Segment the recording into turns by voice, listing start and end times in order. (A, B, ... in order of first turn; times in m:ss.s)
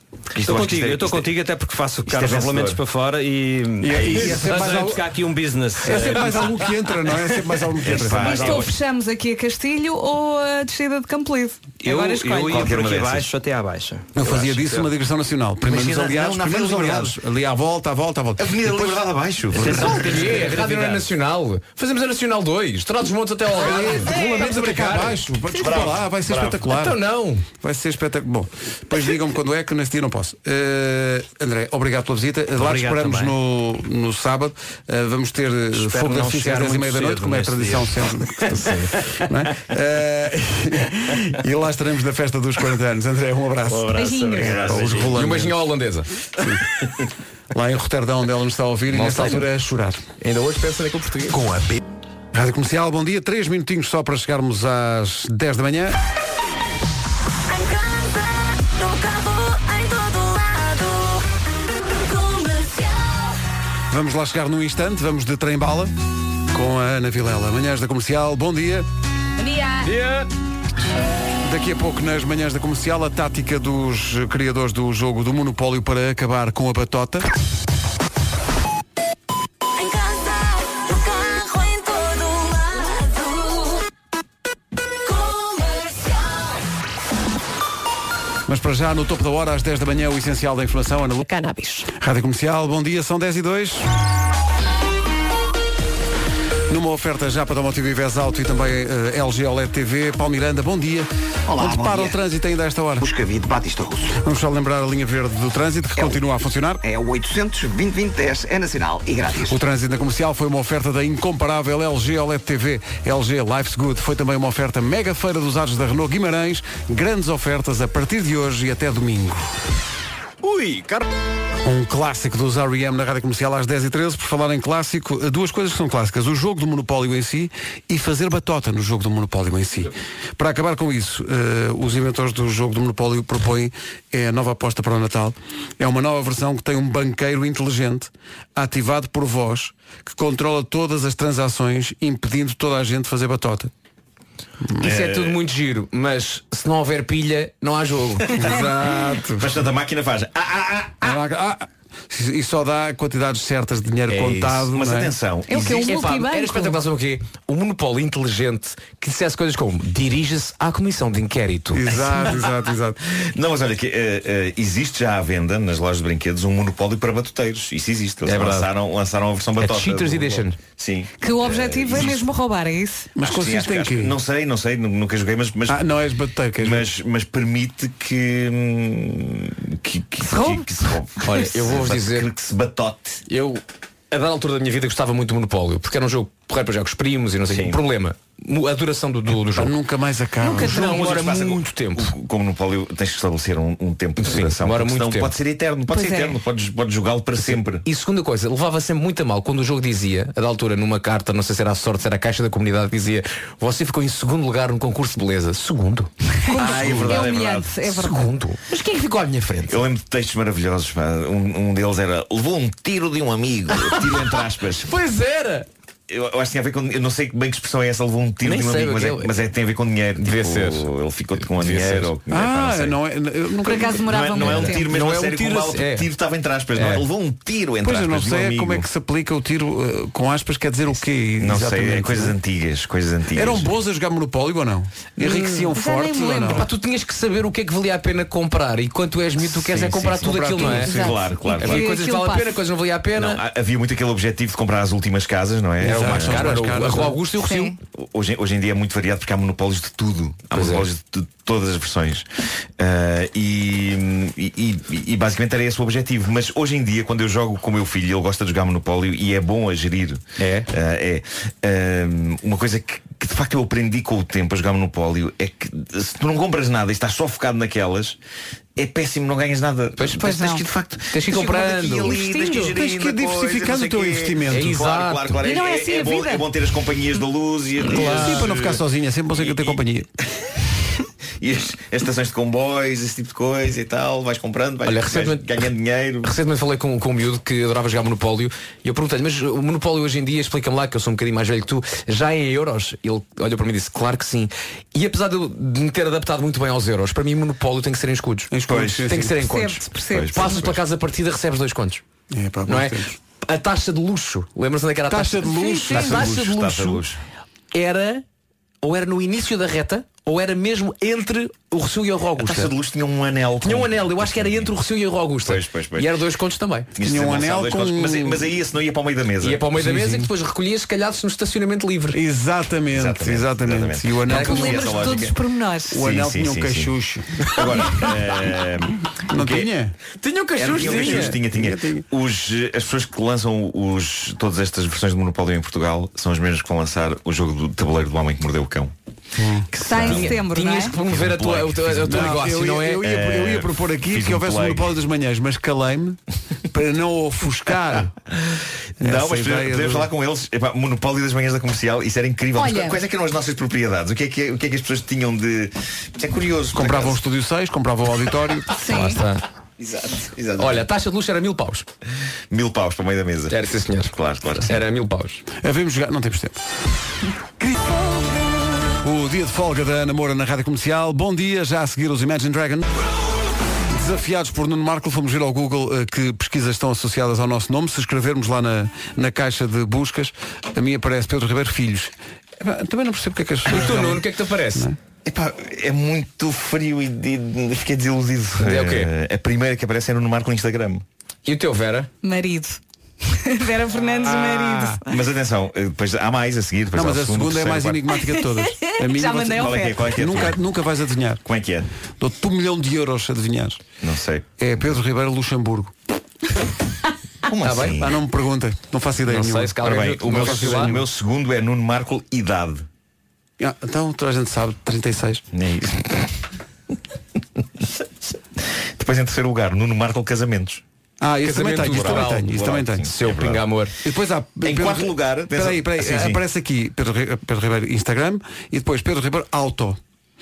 0:00.3-0:01.3 A
0:00.4-0:06.6 B
0:02.1-0:02.8 A
0:03.8-0:05.0 C
0:04.0-0:04.7 A
0:05.8-0:08.3 C
0:07.8-0:08.7 A
0:07.9-0:12.6 D
0:08.2-0:08.6 B
0:11.8-0:14.9 B
0:12.4-0:13.3 A
0:14.1-0:19.0 C
0:15.6-0:17.1 A
0:18.4-0:20.4 A
0:19.5-0:21.0 B
0:19.6-0:25.2 E
0:23.5-0:27.0 C
0:25.6-0:26.6 A
0:26.7-0:27.4 E
0:27.6-0:45.6 C
0:32.6-0:33.4 B
0:35.7-0:38.0 B
0:38.5-0:38.9 E
0:43.6-0:45.2 B
0:44.0-0:44.7 D
0:44.5-0:44.9 A
0:45.1-0:46.1 E
0:46.4-0:46.6 C
0:47.5-0:50.0 C
0:48.9-0:49.5 E
0:50.2-0:51.5 E
0:52.3-0:56.0 C
1:03.9-1:05.9 C
1:06.5-1:08.9 C
1:09.5-1:09.8 D
1:09.8-1:10.3 E
1:11.4-1:17.3 C
1:28.5-1:31.2 C
1:31.3-1:31.8 D
1:31.9-1:33.9 C
1:36.7-1:43.1 C
1:41.5-1:42.2 F
1:43.0-1:44.2 F
1:44.2-1:46.8 C
1:46.8-1:49.5 F
1:49.4-1:59.5 C
2:01.6-2:23.7 C
2:24.8-2:28.4 E
2:24.8-2:25.4 A
2:28.3-2:29.5 C
2:29.4-2:31.1 A
2:31.0-2:35.1 C
2:34.1-2:34.7 E
2:34.7-2:35.9 A
2:35.5-2:36.8 D
2:35.7-2:42.3 E
2:41.7-2:43.0 C
2:43.0-2:52.3 A
2:48.2-2:48.7 E
2:49.6-2:50.6 E
2:51.2-2:53.1 D
2:53.2-2:54.2 C
2:53.2-2:55.8 A
2:55.7-2:56.9 C
2:56.6-3:03.2 A
3:00.2-3:00.6 D
3:01.2-3:02.3 E
3:03.3-3:09.7 E
3:07.5-3:07.8 A
3:09.5-3:10.8 C
3:10.4-3:12.1 E
3:10.5-3:17.8 A
3:14.2-3:15.4 E
3:16.0-3:16.3 D
3:17.4-3:27.2 E
3:26.4-3:28.3 D
3:26.5-3:27.7 A
3:26.7-3:27.0 C
3:27.8-3:29.8 E
3:29.7-3:34.9 A
3:34.9-3:35.7 E
3:36.1-3:43.0 A
3:38.4-3:39.3 E
3:40.2-3:40.9 E
3:41.5-3:42.1 E
3:42.3-3:44.2 C
3:43.6-3:44.9 D
3:44.0-3:48.8 A
3:44.4-3:46.1 E
3:46.7-3:47.0 E
3:47.8-3:52.4 C
3:51.4-3:53.7 A
3:53.3-3:56.6 C
3:55.2-3:55.7 E
3:55.7-3:56.7 D
3:56.5-4:01.0 E
3:59.4-4:01.1 C
4:00.8-4:02.5 D
4:00.9-4:01.8 A
4:01.6-4:03.4 E
4:03.1-4:06.8 A
4:05.8-4:07.2 C
4:05.8-4:07.8 E
4:07.4-4:07.8 D
4:08.0-4:12.2 A
4:10.5-4:10.9 E
4:12.8-4:28.2 A
4:20.4-4:20.7 E
4:28.8-4:38.8 A
4:30.0-4:32.2 E
4:30.2-4:30.6 D
4:32.0-4:32.8 D
4:32.6-4:34.7 C
4:34.5-4:35.4 E
4:35.4-4:36.5 D
4:37.9-4:40.1 C
4:38.0-4:38.4 E
4:39.4-4:39.8 A
4:41.4-4:46.3 A
4:44.8-5:02.0 E
4:58.5-4:59.4 C
4:58.7-4:59.0 A
4:59.4-5:00.6 D
5:00.1-5:00.8 A
5:02.3-5:03.2 C
5:02.7-5:07.1 E
5:05.1-5:06.3 C
5:05.4-5:06.1 D
5:05.9-5:07.2 A
5:07.7-5:08.2 E
5:08.8-5:12.7 E
5:12.4-5:14.7 A
5:13.6-5:16.9 E
5:15.4-5:16.2 A
5:16.9-5:19.7 A
5:17.0-5:18.5 C
5:19.4-5:22.2 E
5:19.8-5:20.3 C
5:22.1-5:25.2 C
5:22.9-5:25.3 A
5:24.3-5:24.7 E
5:24.3-5:26.0 D
5:25.9-5:27.9 C
5:25.9-5:26.9 A
5:27.5-5:29.7 A
5:29.3-5:29.9 C
5:30.2-5:31.4 E
5:30.6-5:38.9 A
5:30.7-5:32.0 C
5:39.4-5:39.7 C
5:39.8-5:41.0 D
5:39.8-5:43.0 E
5:39.9-5:40.2 A
5:41.0-5:44.9 A
5:42.0-5:46.2 C
5:46.7-5:48.1 C
5:49.0-5:50.1 C
5:49.0-5:57.2 A
5:52.6-5:53.0 D
5:56.7-5:58.7 C
5:58.7-5:59.2 D
5:58.9-5:59.4 E
5:59.8-6:00.8 A
6:00.6-6:01.8 E
6:02.5-6:03.6 A
6:03.5-6:04.1 E
6:04.1-6:04.8 A
6:04.6-6:05.4 E
6:05.6-6:06.6 C
6:09.0-6:12.8 C
6:13.9-6:25.0 C
6:23.7-6:24.9 E
6:25.2-6:31.0 A
6:28.6-6:29.1 E
6:31.4-6:32.1 E
6:32.2-6:35.0 D
6:34.3-6:35.0 C
6:35.1-6:38.0 A
6:36.9-6:41.4 C
6:38.3-6:40.2 D
6:39.5-6:40.6 A
6:41.4-6:41.9 A
6:42.2-6:43.8 C
6:44.0-6:44.6 A
6:44.6-6:45.9 C
6:47.5-6:48.1 A
6:47.6-6:48.0 E
6:48.0-6:51.0 C
6:49.3-6:51.0 E
6:49.8-6:52.8 A
6:53.6-6:55.4 C
6:55.5-6:56.3 A
6:59.0-7:00.8 A
7:01.2-7:03.1 C
7:01.4-7:03.9 E
7:01.8-7:03.6 A
7:04.0-7:10.0 C
7:04.6-7:06.4 A